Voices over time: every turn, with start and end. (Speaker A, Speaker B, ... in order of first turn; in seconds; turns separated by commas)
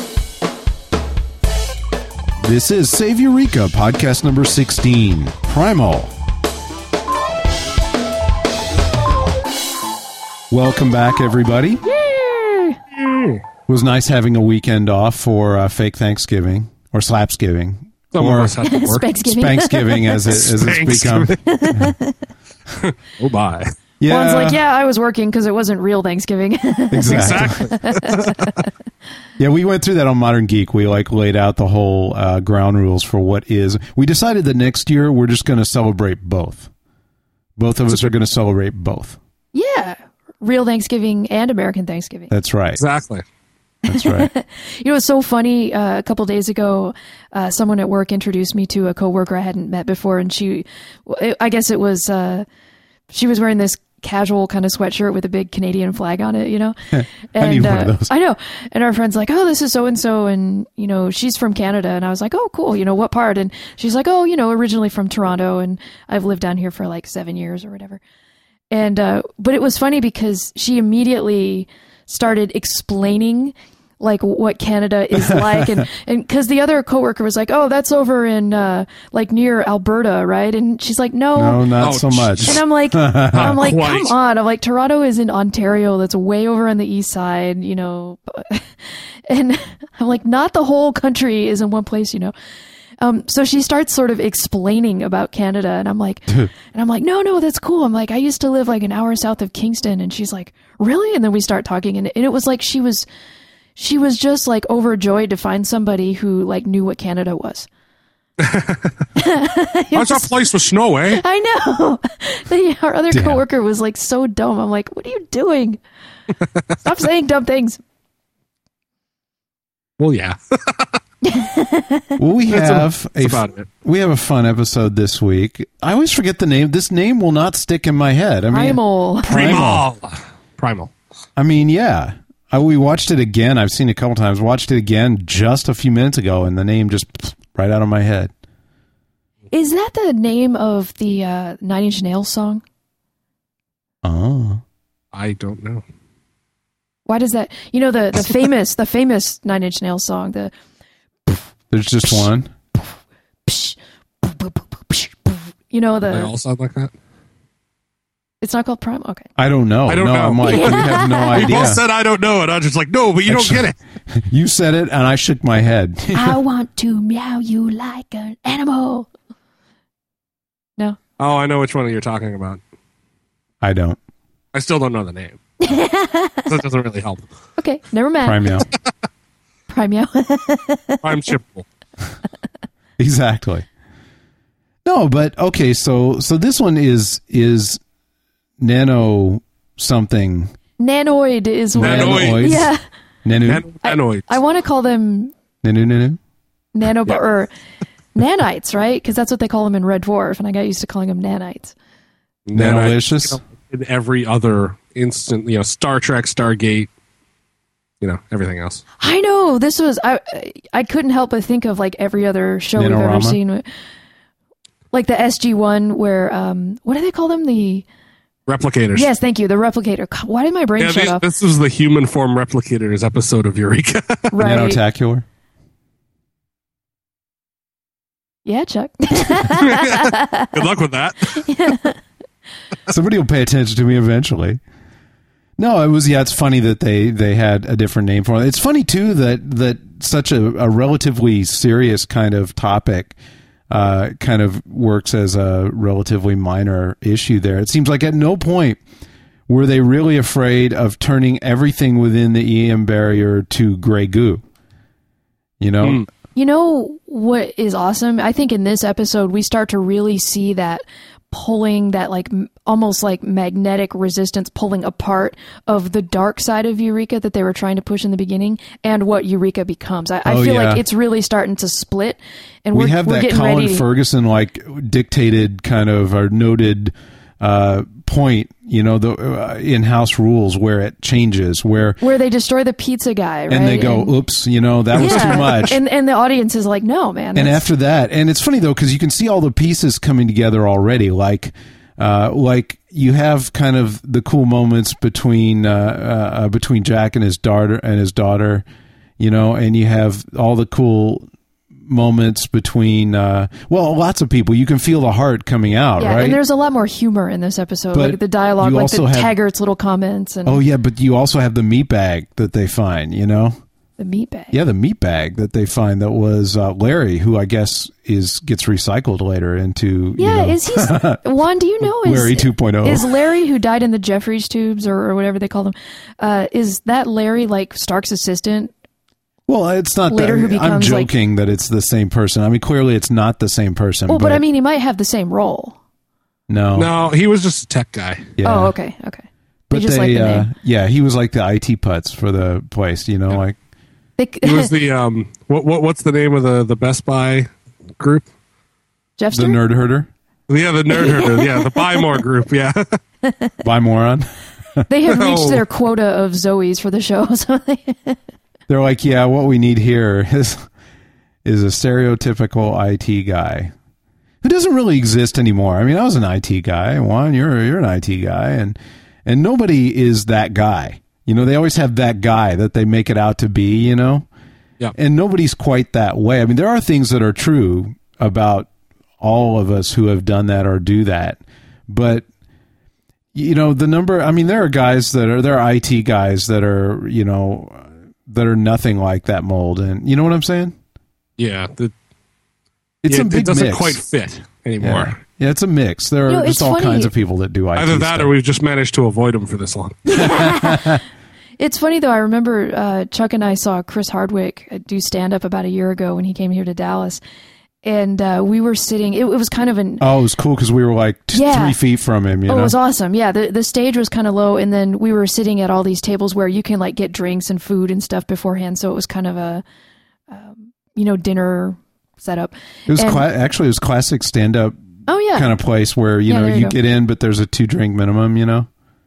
Speaker A: 2.4-6.1, Speaker A: 10.5-11.8, Speaker B: 11.8-12.8, Speaker C: 12.9-13.4, Speaker A: 13.7-18.6, Speaker C: 18.1-19.1, Speaker B: 18.6-20.4, Speaker A: 19.2-21.9, Speaker C: 20.3-21.4, Speaker B: 21.4-22.2, Speaker C: 22.8-23.7, Speaker A: 24.0-24.6, Speaker B: 24.1-28.6, Speaker A: 26.9-27.6, Speaker C: 27.1-28.5, Speaker A: 29.4-36.7, Speaker A: 37.6-39.2, Speaker B: 39.5-42.3, Speaker A: 42.3-42.8, Speaker C: 42.8-43.2, Speaker A: 43.9-44.3, Speaker B: 43.9-52.5, Speaker B: 53.1-56.8, Speaker A: 56.9-58.1, Speaker B: 57.3-68.0, Speaker B: 68.7-81.7, Speaker A: 75.2-75.8, Speaker A: 81.3-83.6, Speaker C: 81.8-82.6, Speaker B: 82.4-88.7, Speaker C: 83.3-84.1, Speaker B: 89.3-92.3, Speaker B: 93.0-103.0, Speaker B: 103.8-107.7, Speaker C: 108.4-108.9, Speaker B: 109.2-110.3, Speaker C: 109.9-111.2, Speaker B: 111.1-115.8, Speaker A: 113.1-113.4, Speaker B: 116.8-117.8, Speaker C: 120.0-121.0, Speaker B: 121.2-122.2, Speaker A: 122.2-129.8, Speaker C: 122.5-123.7, Speaker B: 128.5-129.6, Speaker C: 129.2-130.9, Speaker A: 131.4-138.3, Speaker B: 139.5-142.6, Speaker A: 144.0-144.6, Speaker C: 145.1-145.8, Speaker B: 147.1-150.5, Speaker A: 151.7-152.5, Speaker B: 153.4-156.3, Speaker C: 156.1-156.9, Speaker B: 158.4-159.3, Speaker A: 159.4-161.8, Speaker C: 159.9-163.8, Speaker B: 160.4-161.8, Speaker A: 163.3-166.4, Speaker B: 166.1-169.1, Speaker C: 171.2-172.6, Speaker A: 173.6-174.0, Speaker C: 174.5-175.7, Speaker B: 175.6-176.5, Speaker C: 176.4-177.3, Speaker B: 177.6-178.6, Speaker A: 178.2-178.7, Speaker B: 179.7-181.0, Speaker C: 181.0-181.7, Speaker A: 183.0-183.7, Speaker A: 184.8-187.8, Speaker A: 188.6-190.5, Speaker B: 190.8-192.8, Speaker A: 191.7-192.7, Speaker C: 191.8-192.6, Speaker A: 193.2-193.6, Speaker C: 193.5-194.3, Speaker B: 193.8-195.3, Speaker A: 195.6-196.2, Speaker B: 196.7-197.5, Speaker B: 198.1-201.7, Speaker C: 202.5-206.9, Speaker A: 202.5-203.4, Speaker C: 208.0-208.8, Speaker B: 209.0-213.6, Speaker A: 212.8-213.4, Speaker B: 214.9-217.8, Speaker C: 218.5-219.1, Speaker B: 218.9-221.2, Speaker C: 220.8-224.3, Speaker B: 224.3-224.8, Speaker A: 224.4-225.2, Speaker B: 228.4-230.7, Speaker C: 229.6-231.5, Speaker B: 231.3-232.0, Speaker A: 232.9-234.6, Speaker A: 235.6-243.2, Speaker A: 243.7-248.8, Speaker A: 249.5-254.4, Speaker A: 255.6-256.0, Speaker B: 256.4-273.9, Speaker A: 270.2-270.8, Speaker A: 272.7-282.0, Speaker B: 282.0-284.1, Speaker A: 283.5-285.8, Speaker B: 284.9-287.7, Speaker C: 285.1-285.3, Speaker A: 287.3-298.6, Speaker A: 299.2-301.2, Speaker A: 301.9-306.4, Speaker B: 306.0-310.6, Speaker A: 307.9-309.3, Speaker A: 310.4-313.6, Speaker B: 314.0-314.5, Speaker A: 314.5-321.2, Speaker B: 320.2-328.7, Speaker A: 321.8-323.1, Speaker A: 329.5-334.4, Speaker B: 330.1-331.1, Speaker B: 334.1-335.8, Speaker A: 336.5-336.9, Speaker C: 336.8-338.3, Speaker A: 338.4-338.7, Speaker B: 338.4-340.5, Speaker A: 339.7-343.6, Speaker B: 344.2-344.7, Speaker C: 344.4-347.5, Speaker C: 348.0-348.2, Speaker B: 349.2-349.6, Speaker A: 349.3-350.1, Speaker C: 350.5-353.0, Speaker B: 350.9-352.0, Speaker B: 353.2-353.5, Speaker A: 353.6-354.3, Speaker B: 354.9-358.2, Speaker C: 355.1-355.6, Speaker A: 358.7-360.7, Speaker A: 361.4-363.7, Speaker A: 364.4-374.3, Speaker A: 374.9-382.2, Speaker A: 383.3-390.7, Speaker C: 391.4-391.9, Speaker A: 393.0-394.0, Speaker C: 393.1-395.2, Speaker A: 394.8-398.3, Speaker B: 396.3-397.1, Speaker C: 397.8-400.0, Speaker B: 400.1-401.0, Speaker A: 400.1-401.0, Speaker B: 401.6-407.2, Speaker B: 407.8-410.0, Speaker A: 410.0-412.7, Speaker B: 411.3-411.8, Speaker B: 412.5-419.6, Speaker B: 420.3-423.2, Speaker A: 422.9-424.8, Speaker B: 425.1-425.5, Speaker A: 425.3-428.7, Speaker B: 426.3-426.8